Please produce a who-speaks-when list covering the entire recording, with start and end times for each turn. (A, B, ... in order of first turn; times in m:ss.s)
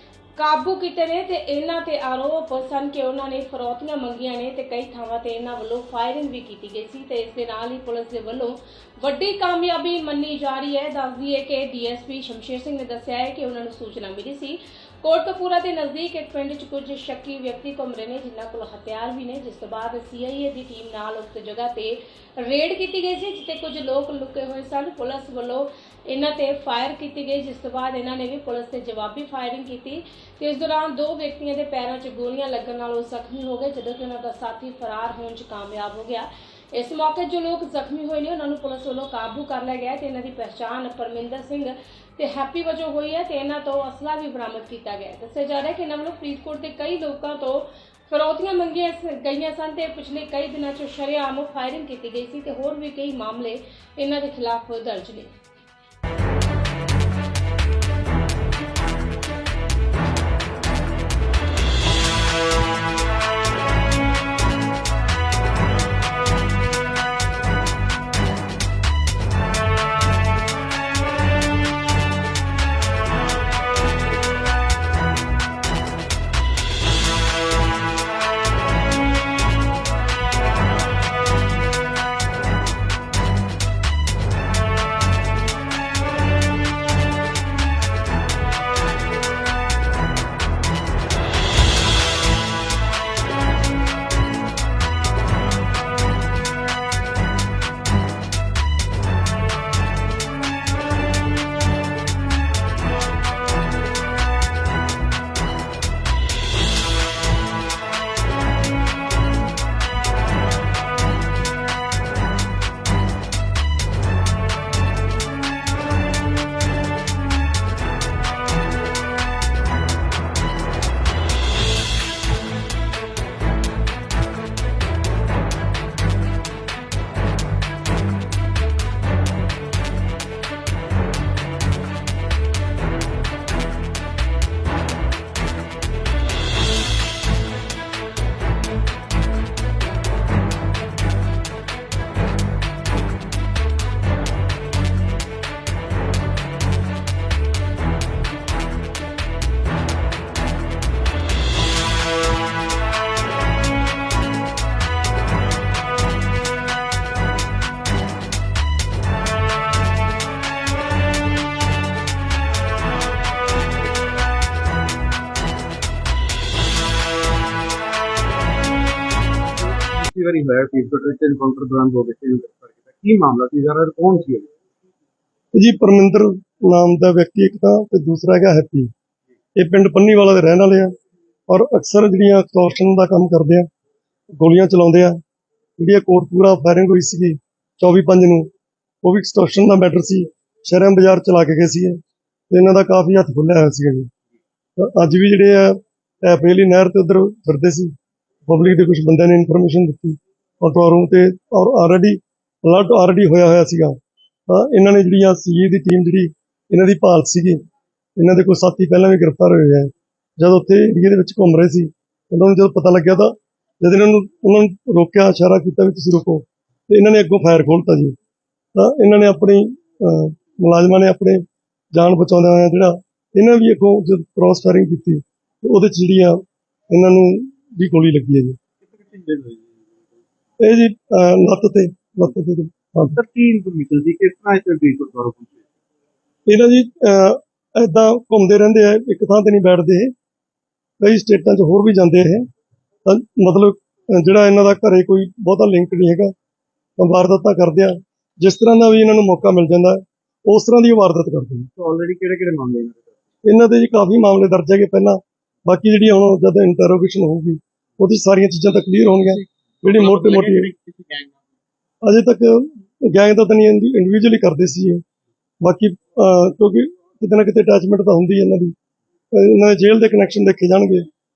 0:00.4-0:55.4 A
2:49.6-2:54.5 B
2:55.5-2:58.9 C
2:59.6-3:00.9 C
3:01.5-3:03.7 C
3:04.4-3:05.2 C
3:05.8-3:08.5 C
3:09.0-3:12.0 C
3:12.5-3:14.1 C
3:14.8-3:17.9 C
3:18.5-3:23.9 C
3:24.5-3:27.6 C
3:28.2-3:38.2 C
3:38.8-3:41.4 C
3:41.9-3:46.4 C
3:46.9-3:48.6 C
3:48.8-3:49.8 B
3:50.6-3:53.2 C
3:53.2-3:55.6 B
3:56.5-4:00.1 C
4:01.0-4:02.5 C
4:03.0-4:06.3 C
4:07.0-4:11.7 C
4:11.8-4:13.2 B
4:13.4-4:20.7 C
4:19.8-4:21.4 B
4:22.0-4:25.0 C
4:25.6-4:28.7 C
4:29.3-4:31.1 C